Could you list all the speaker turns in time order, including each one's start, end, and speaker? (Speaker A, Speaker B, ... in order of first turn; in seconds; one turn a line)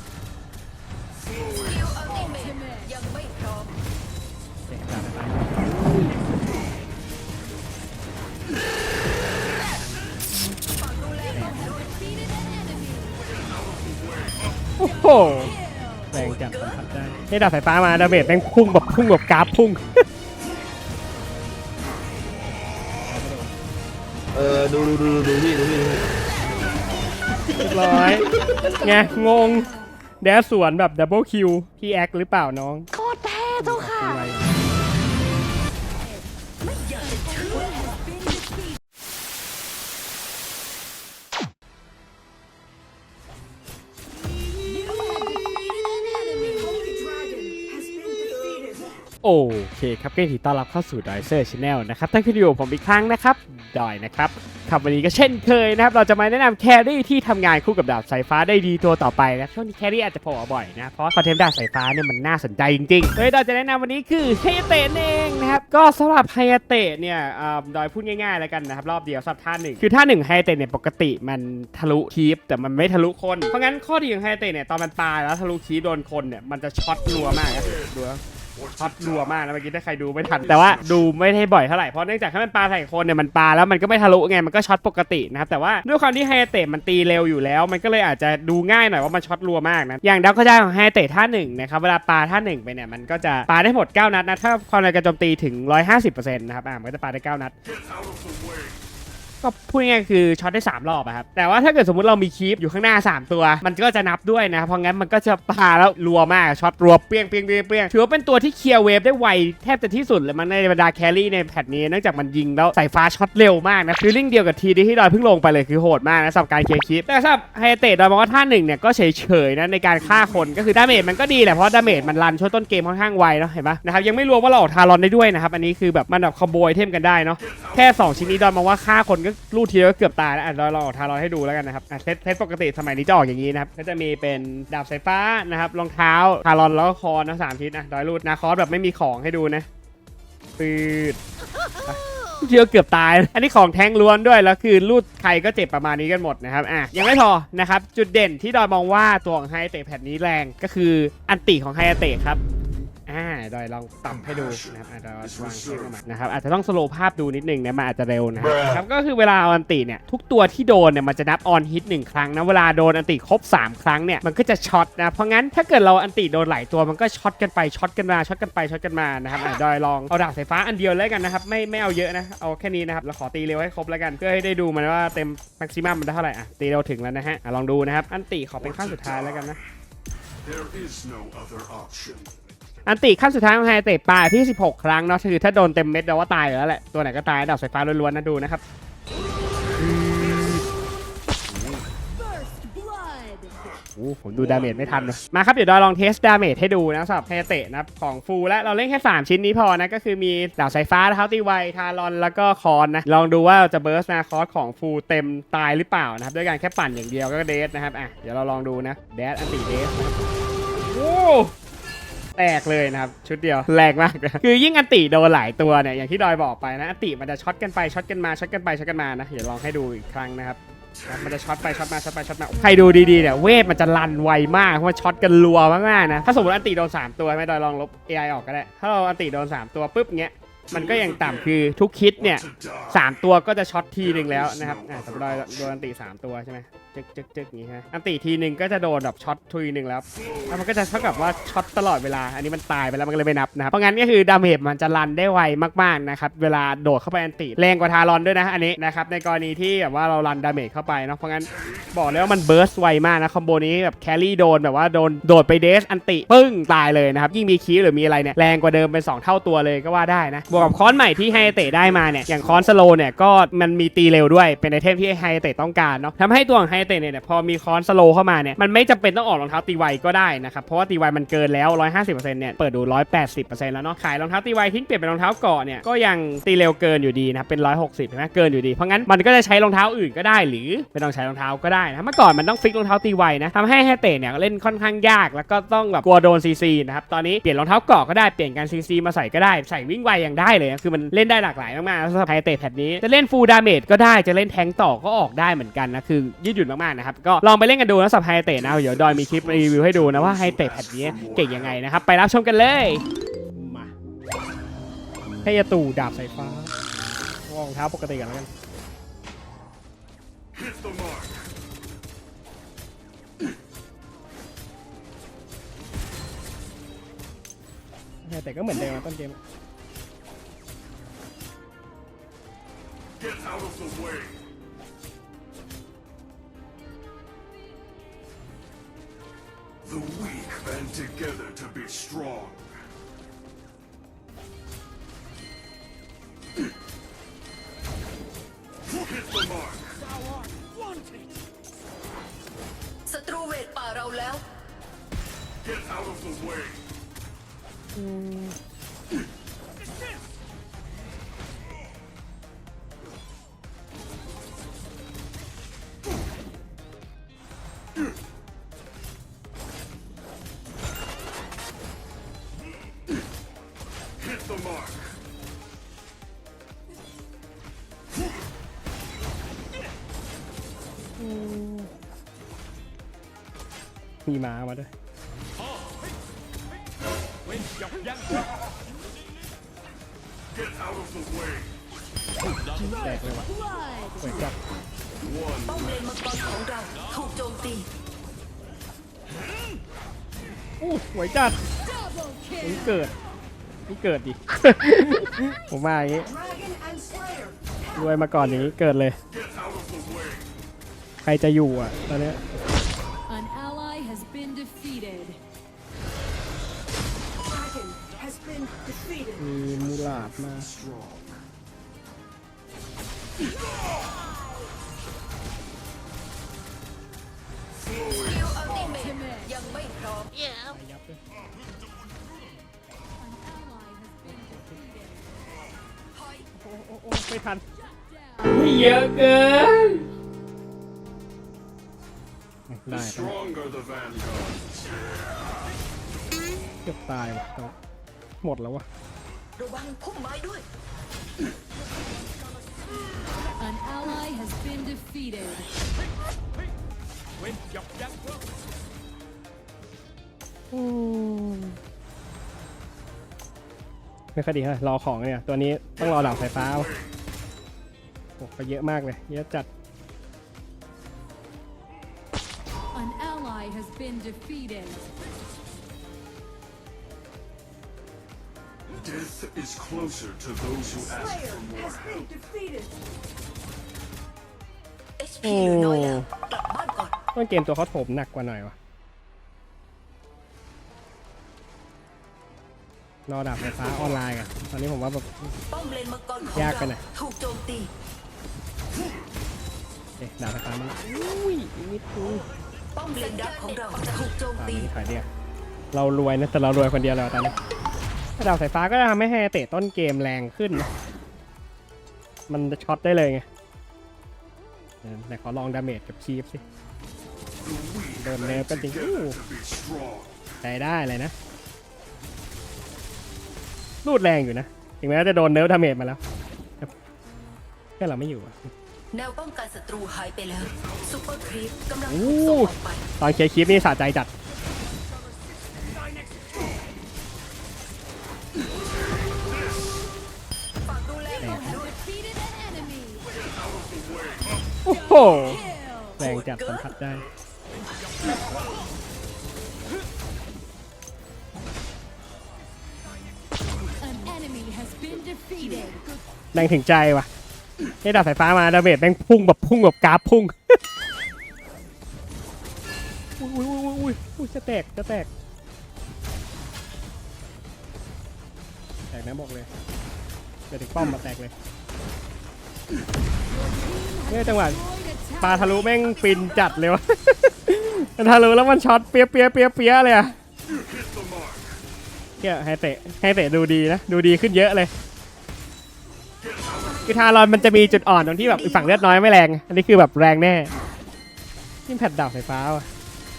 Speaker A: 1.6-3.7
Speaker B: 2.6-2.9
Speaker C: 4.7-6.2
Speaker A: 10.9-11.7
Speaker B: 11.6-13.2
Speaker C: 14.8-15.5
Speaker C: 16.1-19.8
Speaker C: 23.1-23.5
Speaker D: 24.4-26.0
Speaker C: 27.6-28.3
Speaker C: 28.8-29.7
Speaker C: 30.2-32.9
Speaker D: 33.0-33.6
Speaker C: 33.6-34.5
Speaker B: 37.2-38.5
Speaker B: 44.6-46.8
Speaker C: 49.2-78.2
Speaker C: 78.8-97.5
Speaker C: 99.4-139.7
Speaker C: 140.6-141.2
Speaker C: 141.8-152.4
Speaker C: 153.1-179.6
Speaker E: 180.4-182.3
Speaker C: 182.9-188.6
Speaker C: 189.9-190.5
Speaker B: 192.2-193.5
Speaker C: 194.0-210.2
Speaker C: 210.9-211.5
Speaker C: 212.4-303.0
Speaker E: 232.6-232.8
Speaker C: 303.6-303.9
Speaker C: 305.4-306.7
Speaker C: 307.5-308.5
Speaker C: 318.2-319.4
Speaker E: 329.9-332.6
Speaker A: 343.1-344.4
Speaker C: 347.9-348.6
Speaker C: 371.2-371.9
Speaker C: 374.3-374.9
Speaker C: 382.8-383.5
Speaker B: 383.8-384.2
Speaker C: 384.2-384.6
Speaker A: 385.7-387.9
Speaker C: 390.8-391.6
Speaker B: 392.2-392.6
Speaker C: 392.6-393.1
Speaker C: 393.9-396.3
Speaker C: 397.9-399.2
Speaker C: 401.2-402.4
Speaker B: 403.3-405.4
Speaker C: 409.4-410.7
Speaker A: 418.2-420.4
Speaker B: 419.1-419.6
Speaker C: 420.5-421.2
Speaker B: 423.3-425.1
Speaker C: 424.3-424.9
Speaker C: 426.6-427.6
Speaker B: 427.9-428.5
Speaker C: 428.5-430.0
Speaker C: 432.7-433.4
Speaker E: 433.4-434.8
Speaker C: 436.9-437.7
Speaker C: 438.4-438.9
Speaker A: 439.6-440.6
Speaker B: 443.6-445.7
Speaker C: 450.7-451.8
Speaker C: 454.4-456.9
Speaker C: 458.4-459.7
Speaker B: 462.9-465.0
Speaker E: 469.0-472.7
Speaker A: 475.2-477.1
Speaker C: 475.4-476.3
Speaker C: 477.4-478.8
Speaker C: 483.3-485.6
Speaker A: 485.7-487.9
Speaker C: 486.5-487.0
Speaker C: 490.2-492.5
Speaker A: 493.0-494.8
Speaker C: 494.6-495.3
Speaker C: 495.9-497.6
Speaker C: 498.4-500.9
Speaker C: 502.5-503.4
Speaker C: 505.0-506.6
Speaker E: 507.6-508.1
Speaker C: 508.2-509.4
Speaker E: 509.4-510.3
Speaker C: 510.6-511.3
Speaker C: 514.0-516.2
Speaker C: 518.0-518.7
Speaker A: 519.1-523.0
Speaker C: 522.1-524.3
Speaker A: 530.9-531.7
Speaker C: 531.4-531.8
Speaker B: 531.9-533.3
Speaker C: 534.9-535.6
Speaker C: 536.2-537.2
Speaker B: 544.0-546.1
Speaker C: 546.5-547.3
Speaker C: 548.0-550.8
Speaker C: 553.4-555.3
Speaker C: 559.1-559.7
Speaker C: 560.7-561.5
Speaker B: 563.7-565.6
Speaker C: 564.3-564.8
Speaker C: 565.4-570.4
Speaker C: 572.4-574.9
Speaker C: 577.1-580.7
Speaker C: 581.9-582.9